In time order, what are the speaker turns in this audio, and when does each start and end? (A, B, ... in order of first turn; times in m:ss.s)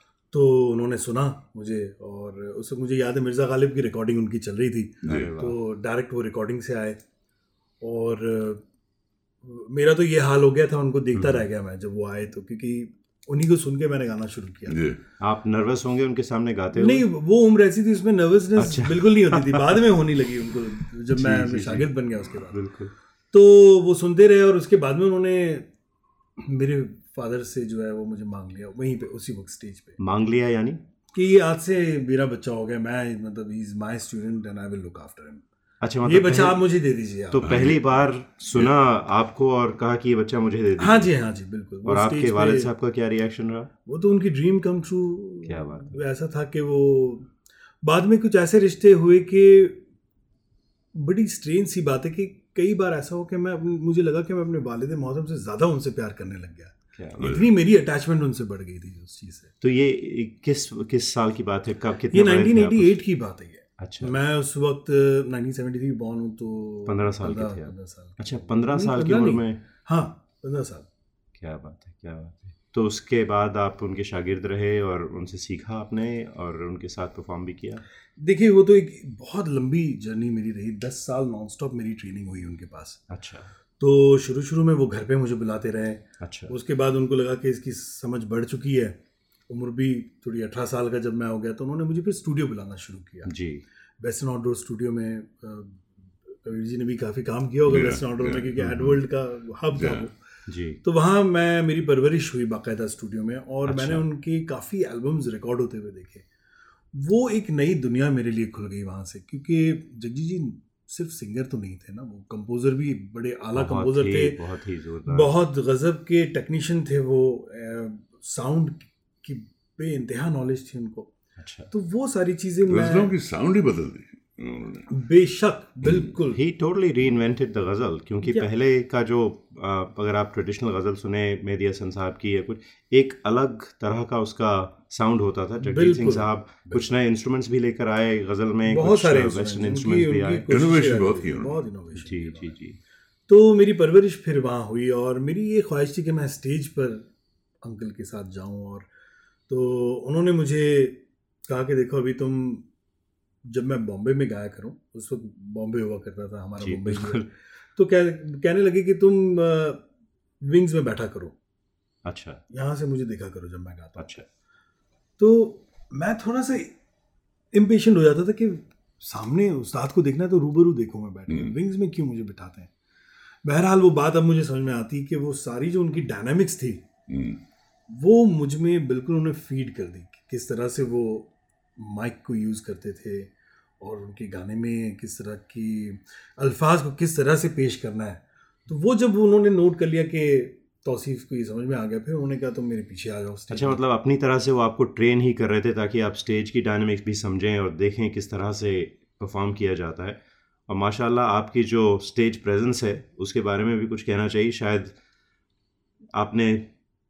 0:00.3-0:07.0 A
0:05.0-0:05.3 B
0:05.0-0:05.6 C
0:07.8-0:08.6 A
0:09.4-0:14.8 A
0:11.1-0:11.4 C
0:14.7-0:15.0 B
0:15.2-0:17.1 C
0:16.7-0:22.6 A
0:18.5-0:19.8 C
0:21.1-0:22.9 C
0:23.3-0:25.7 A
0:26.4-0:30.0 A
0:30.0-0:30.8 C
0:31.1-0:35.4 A
0:35.8-0:36.6 C
0:36.0-0:37.5 A
0:37.3-0:41.1 C
0:37.4-0:37.8 B
0:40.8-0:42.7 A
0:41.8-0:43.7 C
0:43.8-0:49.8 A
0:45.4-0:46.0 C
0:50.9-0:59.5 A
0:56.9-0:57.4 C
0:57.2-0:57.4 B
0:59.6-1:03.0 C
1:02.1-1:10.9 A
1:03.8-1:04.2 C
1:06.8-1:09.6 C
1:11.4-1:17.8 C
1:18.2-1:23.0 A
1:23.1-1:23.5 C
1:23.8-1:29.0 A
1:26.2-1:26.6 C
1:29.5-1:33.3 A
1:33.2-1:33.6 C
1:34.0-1:40.2 A
1:37.6-1:39.0 B
1:39.7-1:40.1 B
1:40.5-1:40.8 C
1:40.8-1:46.2 A
1:43.6-1:44.1 C
1:46.9-1:54.4 A
1:53.5-1:55.3 C
1:55.1-2:01.1 A
2:01.4-2:01.7 C
2:01.7-2:03.1 A
2:02.6-2:04.9 B
2:04.9-2:06.4 A
2:05.8-2:06.1 B
2:06.3-2:20.5 C
2:15.6-2:17.0 A
2:18.7-2:22.5 A
2:20.5-2:21.6 B
2:21.9-2:22.8 C
2:23.3-2:27.1 A
2:27.6-2:28.9 A
2:29.5-2:32.7 A
2:33.4-2:39.8 A
2:36.6-2:37.3 C
2:40.4-2:41.4 A
2:42.0-2:42.4 C
2:42.5-2:44.2 A
2:44.0-2:44.2 C
2:45.2-2:46.7 A
2:47.5-2:52.7 A
2:51.3-2:51.6 B
2:53.4-2:56.8 A
2:57.1-2:57.4 B
2:57.9-3:13.8 A
3:13.5-3:24.9 C
3:26.1-3:26.7 C